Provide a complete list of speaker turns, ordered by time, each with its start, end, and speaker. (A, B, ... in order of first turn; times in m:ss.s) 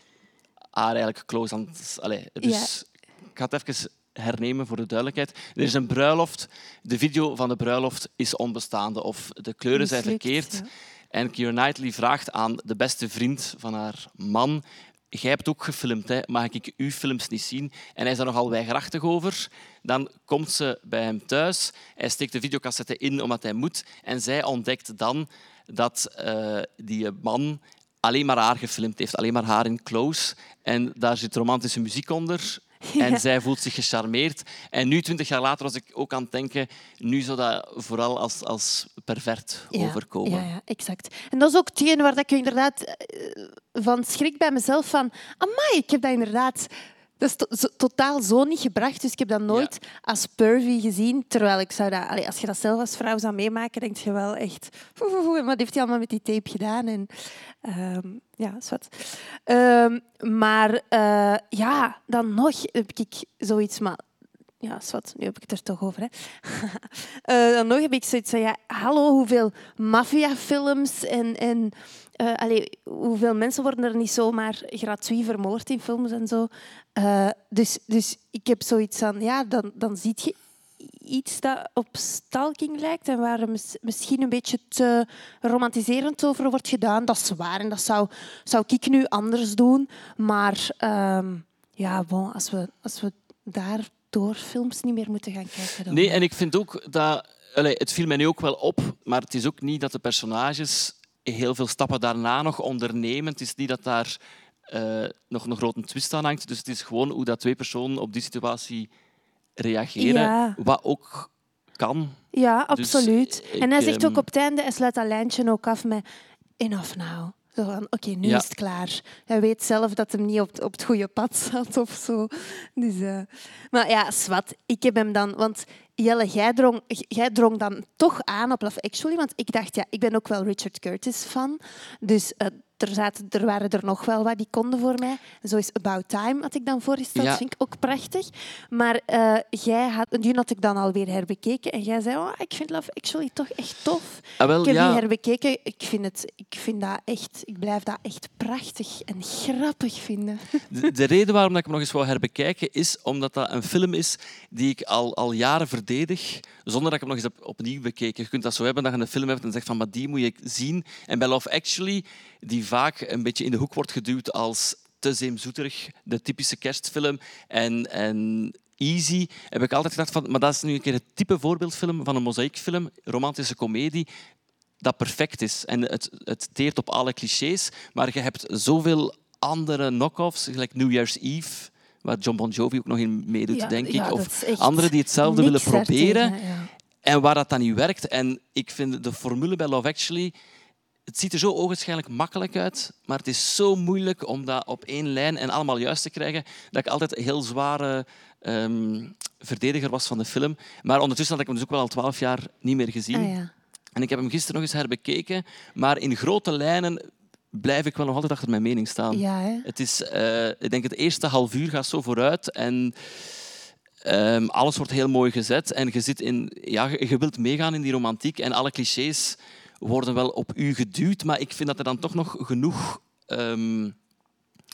0:00.7-0:40.5 A
0:02.4-0:02.7 B
0:09.7-0:10.7 B
0:32.9-0:33.2 B
0:39.7-1:04.0 B
1:04.6-1:36.2 B
1:35.9-1:44.2 A
1:44.7-1:48.9 A
1:49.6-1:52.2 A
1:50.0-1:50.6 B
1:52.3-1:56.0 B
1:52.7-1:54.2 A
1:56.6-2:30.6 B
2:17.2-2:17.4 A
2:24.4-2:25.0 A
2:30.7-2:54.1 A
2:54.8-3:06.3 A
3:03.5-3:06.7 B
3:07.0-3:10.3 A
3:11.1-3:23.3 A
3:23.1-3:23.5 B
3:23.9-3:33.4 A
3:29.1-3:29.7 B
3:34.0-3:43.9 A